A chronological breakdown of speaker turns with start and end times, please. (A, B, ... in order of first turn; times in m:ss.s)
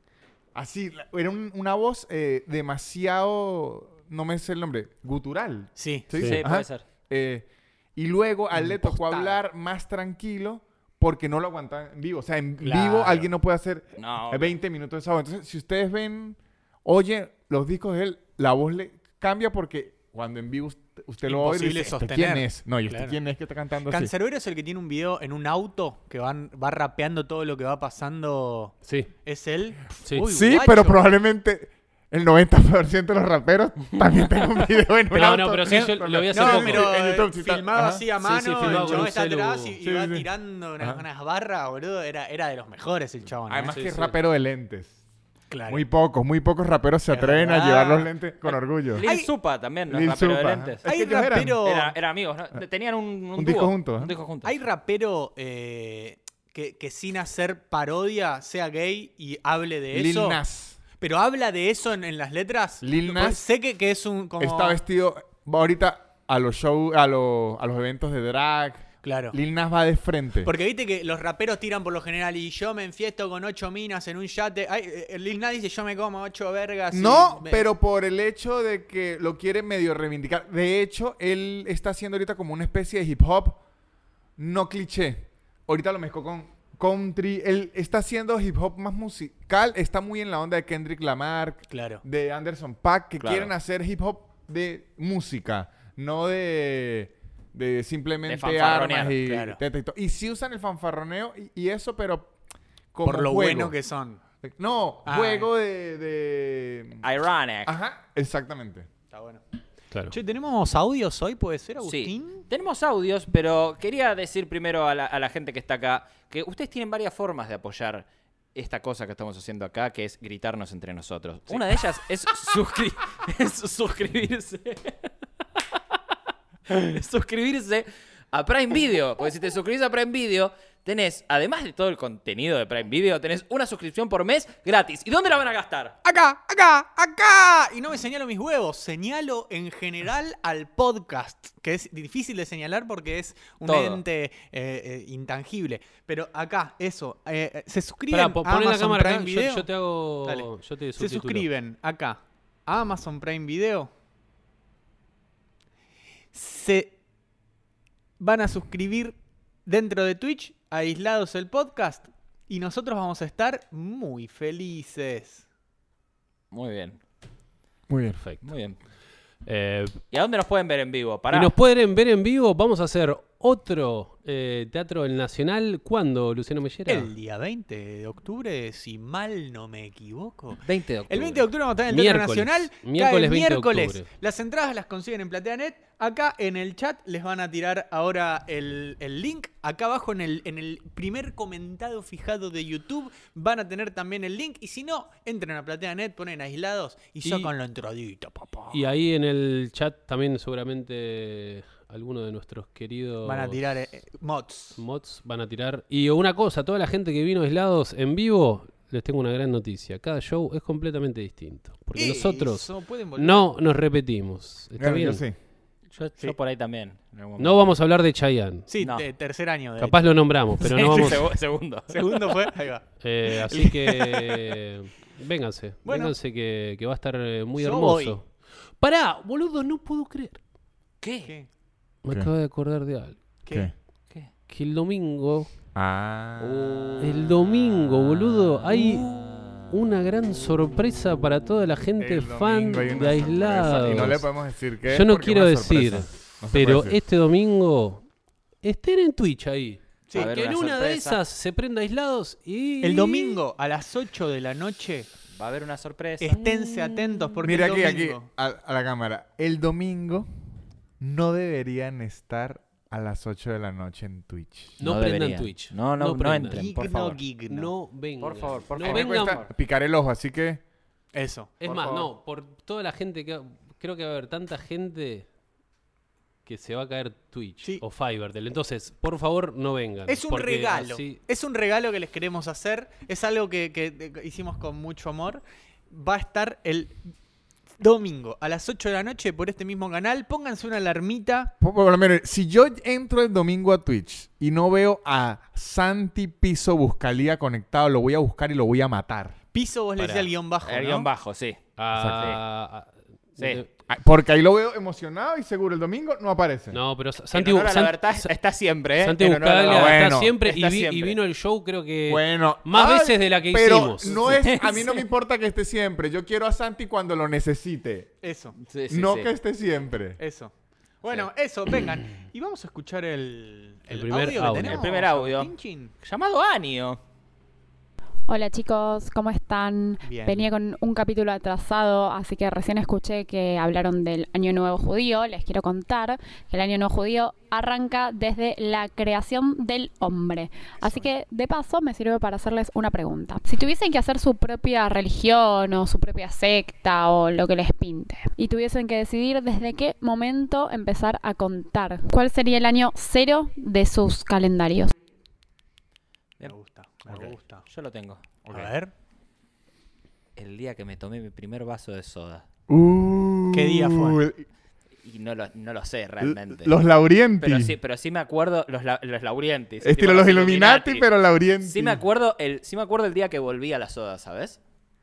0:00.6-0:24.1 A
0:05.8-0:06.1 B
0:06.2-0:06.4 C
0:06.2-0:06.8 D
0:08.5-0:09.4 B
0:12.6-0:13.3 B
0:14.0-0:14.6 D
0:21.2-0:23.2 B
0:23.9-0:31.1 B
0:28.8-0:29.1 C
0:30.2-0:38.1 A
0:35.1-0:36.9 C
0:35.7-0:43.8 B
0:38.2-0:39.8 C
0:38.6-0:39.1 A
0:39.8-0:40.3 A
0:43.5-0:44.9 A
0:43.7-0:44.2 C
0:45.5-0:45.8 B
0:45.7-0:49.0 A
0:47.1-0:48.1 B
0:48.9-0:50.8 D
0:49.0-0:49.3 B
0:49.9-0:51.6 A
0:50.8-0:51.9 B
0:51.6-0:54.6 D
0:53.4-0:54.1 A
0:54.4-1:00.4 B
0:59.9-1:00.8 A
1:01.0-1:04.8 B
1:02.8-1:03.4 A
1:04.4-1:10.5 A
1:09.0-1:09.4 B
1:10.4-1:17.7 B
1:16.9-1:23.6 A
1:24.4-1:42.3 A
1:31.7-1:32.0 B
1:33.2-1:33.5 D
1:38.3-1:39.2 D
1:39.2-1:39.6 B
1:42.9-1:43.8 A
1:43.0-1:44.2 B
1:44.4-1:47.0 A
1:45.0-1:45.5 B
1:47.0-1:47.7 D
1:47.6-1:48.9 A
1:49.1-1:49.4 B
1:50.1-1:52.5 B
1:51.8-2:05.1 D
2:06.7-2:16.0 D
2:16.0-2:29.7 B
2:23.6-2:24.0 D
2:28.1-2:31.5 C
2:30.2-2:33.9 B
2:36.3-2:36.9 B
2:38.2-2:45.5 B
2:46.5-2:47.0 D
2:47.9-2:48.2 A
2:48.2-2:48.5 C
2:48.4-2:48.8 D
2:49.4-2:50.0 C
2:50.1-2:51.5 D
2:51.3-2:57.1 C
2:56.9-3:18.8 B
3:00.6-3:01.5 D
3:01.9-3:04.1 C
3:17.2-3:17.5 C
3:18.7-3:23.6 C
3:23.2-3:24.8 B
3:24.8-3:35.2 C
3:32.0-3:33.5 B
3:34.8-3:35.4 A
3:35.9-3:37.7 D
3:37.4-3:38.7 C
3:38.7-3:40.1 B
3:39.8-3:41.2 C
3:40.6-3:42.3 D
3:40.8-3:41.2 B
3:41.9-3:44.4 B
3:43.0-3:50.4 C
3:45.8-3:46.1 B
3:47.6-3:48.2 B
3:51.0-3:51.3 D
3:51.2-3:51.5 B
3:52.0-3:53.2 C
3:52.1-3:52.3 A
3:53.4-3:53.7 B
3:54.5-3:55.5 C
3:55.8-3:56.8 A
3:56.4-3:57.3 D
3:57.0-4:04.3 C
4:02.0-4:07.0 A
4:04.9-4:08.0 C
4:08.6-4:13.4 C
4:10.1-4:11.2 D
4:12.8-4:15.1 B
4:15.4-4:16.4 D
4:16.2-4:18.3 B
4:17.4-4:20.3 A
4:21.0-4:24.8 A
4:24.8-4:26.7 C
4:24.8-4:27.2 D
4:26.5-4:27.7 B
4:27.5-4:29.4 C
4:28.2-4:29.5 D
4:28.8-4:30.6 A
4:31.1-4:31.6 B
4:31.6-4:35.3 C
4:31.6-4:32.1 A
4:36.4-4:41.2 C
4:40.1-4:47.0 B
4:47.8-4:51.5 B
4:51.6-4:59.4 A
4:59.5-5:01.1 B
5:00.0-5:00.3 C
5:00.7-5:02.4 D
5:01.8-5:03.7 C
5:01.9-5:02.4 A
5:03.4-5:03.6 D
5:03.9-5:06.8 A
5:06.7-5:08.3 C
5:07.3-5:11.2 D
5:09.0-5:14.3 C
5:09.6-5:10.4 A
5:12.1-5:18.1 A
5:14.2-5:15.0 D
5:18.2-5:18.6 B
5:18.6-5:19.3 D
5:18.9-5:20.2 A
5:20.2-5:25.9 B
5:23.9-5:24.8 C
5:24.6-5:27.0 D
5:28.3-5:54.9 E
5:30.0-5:30.5 B
5:56.4-5:57.7 B
5:57.1-5:58.2 D
5:58.4-5:58.7 A
5:58.5-5:58.9 B
6:00.4-6:02.4 D
6:02.7-6:04.5 A
6:03.5-6:04.2 B
6:05.0-6:06.8 D
6:06.2-6:07.8 A
6:07.4-6:11.1 D
6:09.8-6:12.0 A
6:11.6-6:14.6 D